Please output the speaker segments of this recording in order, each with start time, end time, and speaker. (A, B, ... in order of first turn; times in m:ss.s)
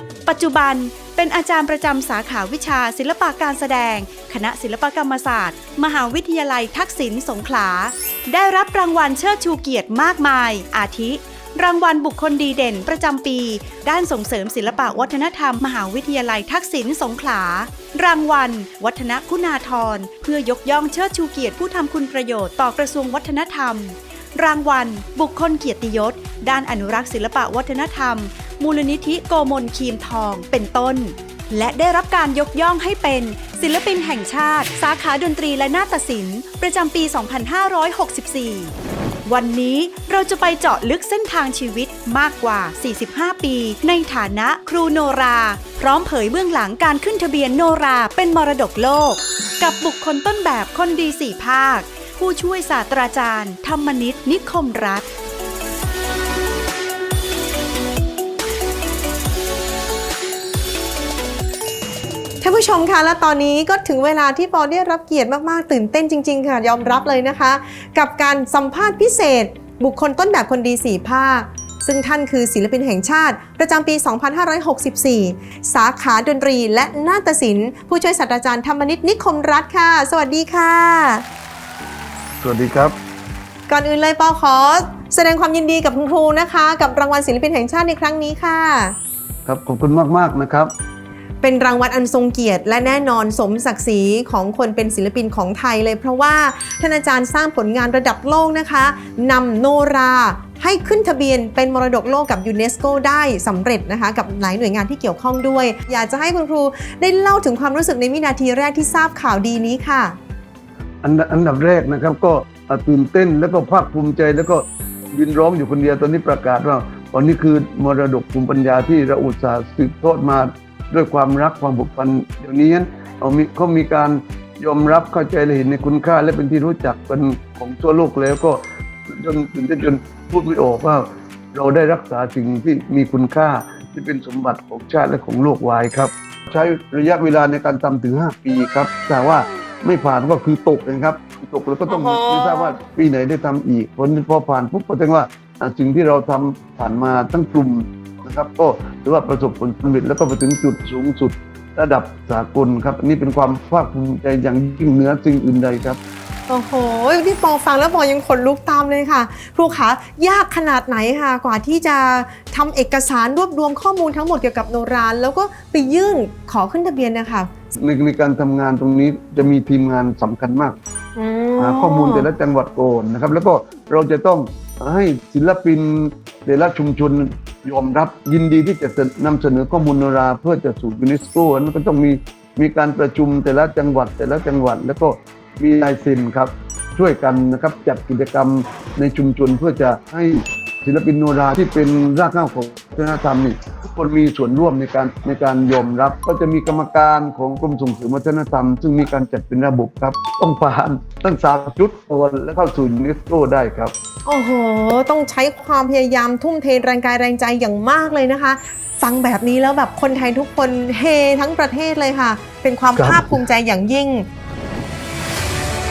0:00.3-0:38.7 A
0:39.2-0:55.0 A
1:02.4-1:21.2 B
1:22.4-1:23.0 C
1:23.7-1:29.0 B
1:29.4-1:30.7 C
1:31.4-1:50.2 B
1:51.0-2:36.0 C
2:21.9-2:22.5 B
2:36.5-2:47.5 B
2:47.7-2:50.8 C
2:51.2-2:52.3 B
2:51.6-3:23.9 C
3:24.2-3:34.3 B
3:32.9-3:33.4 C